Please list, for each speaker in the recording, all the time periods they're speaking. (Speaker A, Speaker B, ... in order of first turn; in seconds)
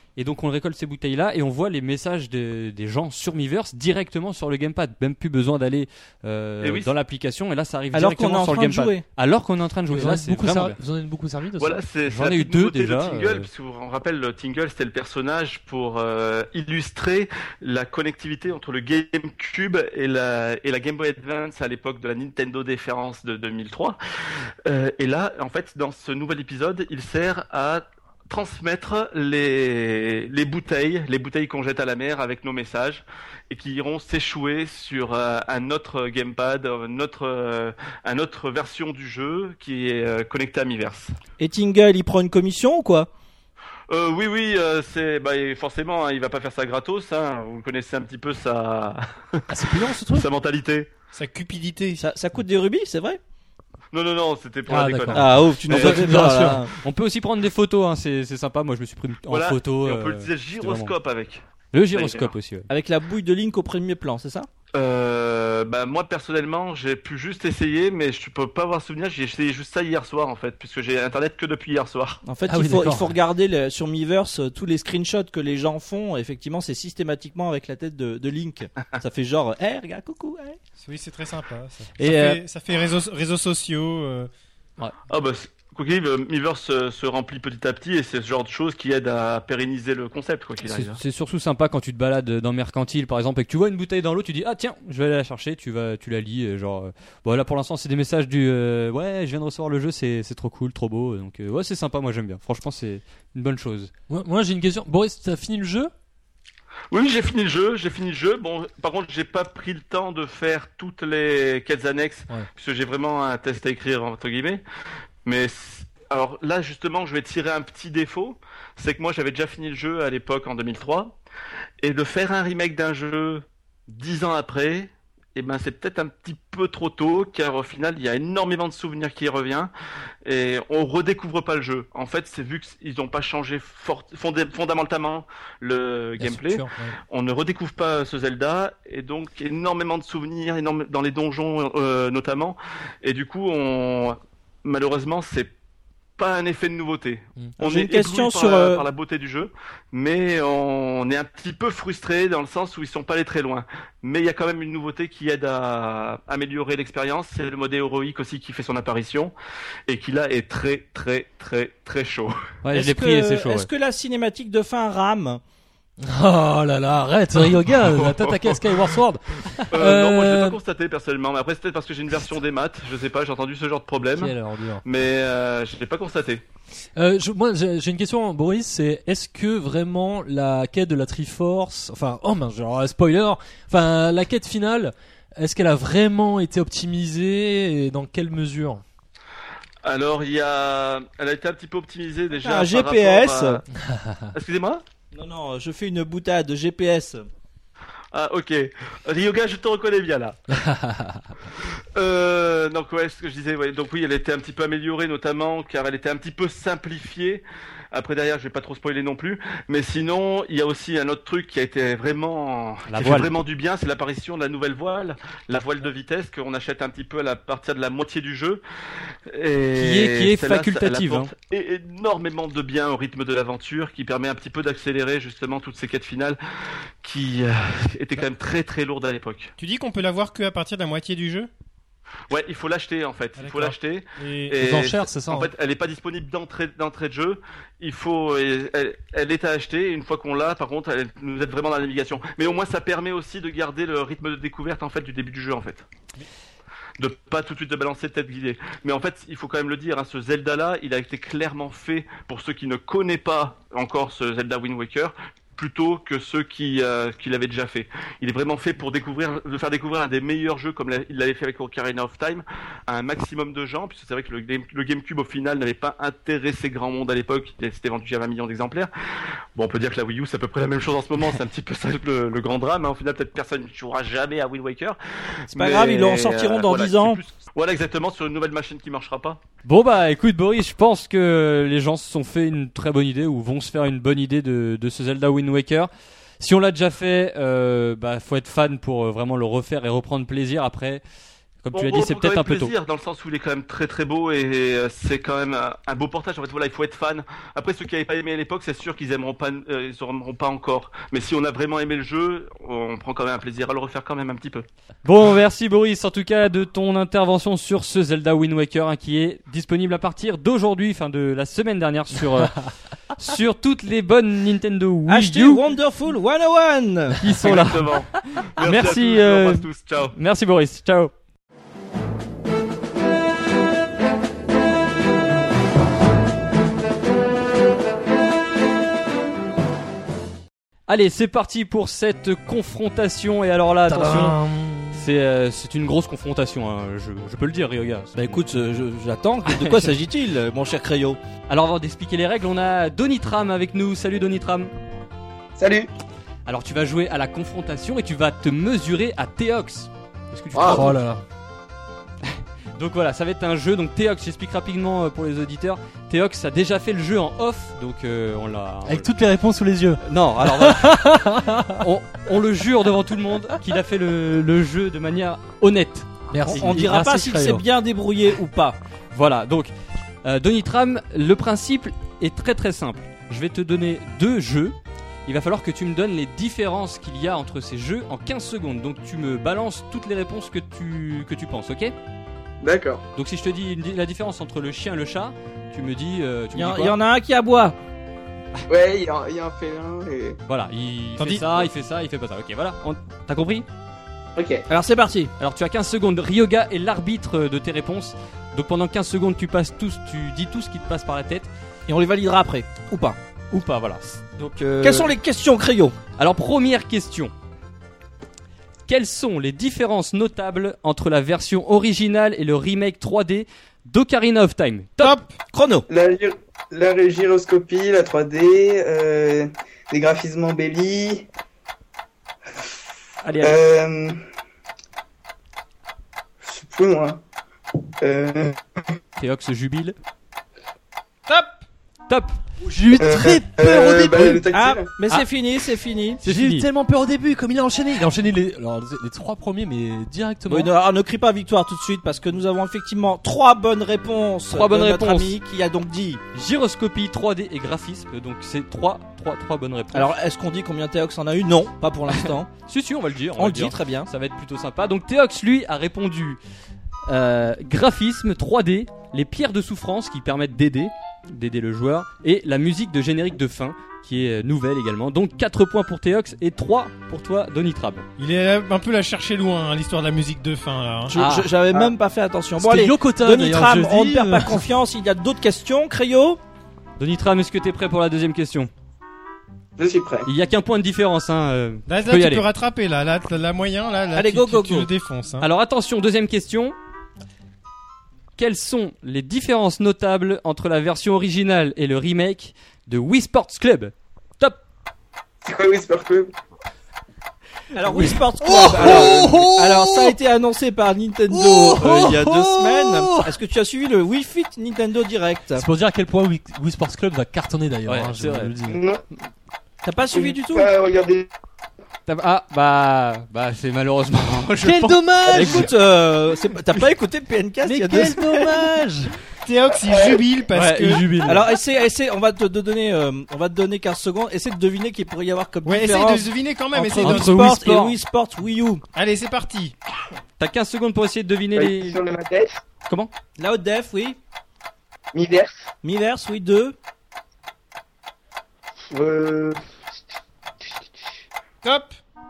Speaker A: 0.2-10.8, 12.1-13.5, 56.1-60.9, 61.7-62.7, 82.0-82.4, 90.6-103.9, 162.6-163.7, 212.9-213.3, 219.8-221.3, 279.6-291.0, 291.6-292.7, 305.1-315.7, 317.2-318.0, 318.6-321.1, 330.9-334.4, 334.9-338.4, 339.5-340.0, 341.5-344.7, 346.5-351.0, 352.2-359.1, 360.0-367.5, 369.1-369.7, 370.2-374.8, 375.3-381.9, 383.1-387.0, 390.5-393.6, 395.4-401.5, 403.5-405.1, 406.2-407.3, 408.9-415.2, 423.2-423.6, 429.2-430.0, 432.1-432.4, 436.2-436.7, 444.5-445.4, 446.3-450.1, 452.5-456.4, 457.1-468.1, 471.2-471.4, 477.0-478.7, 480.2-482.5, 485.4-486.8, 488.4-494.6, 507.9-508.5, 512.1-515.7, 520.5-521.4, 527.0-528.0, 530.4-532.0
Speaker B: 6.6-6.9, 11.6-24.0, 24.6-41.1, 43.9-49.4, 50.1-50.9, 53.9-56.0, 59.3-62.3, 64.8-72.2, 85.1-91.0, 106.9-114.6, 115.2-121.2, 121.8-129.7, 130.2-145.5, 146.2-159.3, 159.9-162.3, 167.9-168.6, 169.7-176.4, 189.8-193.6, 194.3-194.8, 198.1-200.4, 202.0-218.6, 219.3-226.4, 227.0-229.5, 232.3-245.9, 247.0-268.9, 269.6-275.0, 275.5-279.4, 291.7-304.7, 317.4-320.1
Speaker C: 7.9-9.0, 41.4-43.1, 52.0-53.2, 55.1-56.7, 62.7-64.5, 72.2-80.6, 147.6-148.8, 162.7-165.4, 192.4-193.6, 195.1-197.2, 275.5-277.2, 315.1-317.2, 338.1-341.2, 366.5-368.8, 386.5-387.8, 394.7-395.3, 401.9-403.2, 404.8-406.0, 415.5-415.9, 434.5-436.2, 440.5-446.2, 449.9-452.5, 453.4-454.1, 471.1-476.4, 484.1-484.9, 497.7-505.6, 509.8-510.7, 515.4-518.6, 521.3-528.8, 533.4-534.2, 535.8-536.8
Speaker D: 9.9-11.8, 49.5-50.3, 54.7-56.6, 72.5-73.2, 104.1-105.9, 136.2-137.0, 166.0-170.6, 174.2-174.8, 177.0-188.8, 193.8-194.3, 200.6-201.3, 234.6-235.5, 333.9-335.1, 350.6-351.2, 358.9-361.9, 366.3-367.6, 432.6-434.4, 436.2-440.7, 472.6-474.7, 497.9-500.1, 501.3-503.4, 505.5-508.8, 514.6-515.7, 517.6-519.1, 520.9-521.4
Speaker E: 51.1-52.0, 80.8-84.3, 229.6-231.5, 233.4-234.7, 391.2-391.6, 415.0-415.3, 431.3-431.6, 468.2-471.1, 481.9-485.5, 519.4-521.1, 525.7-527.3, 529.0-529.8, 541.6-542.0
Speaker F: 345.6-345.9, 350.5-350.8, 382.6-383.0, 388.7-390.4, 394.4-394.6, 415.9-421.3, 423.4-424.2, 426.4-427.2, 428.0-428.8, 432.9-434.9, 479.8-480.3, 495.4-496.3, 498.5-499.4, 508.7-509.0, 510.1-511.3, 519.8-520.2, 531.5-532.6, 535.1-535.7, 538.9-539.6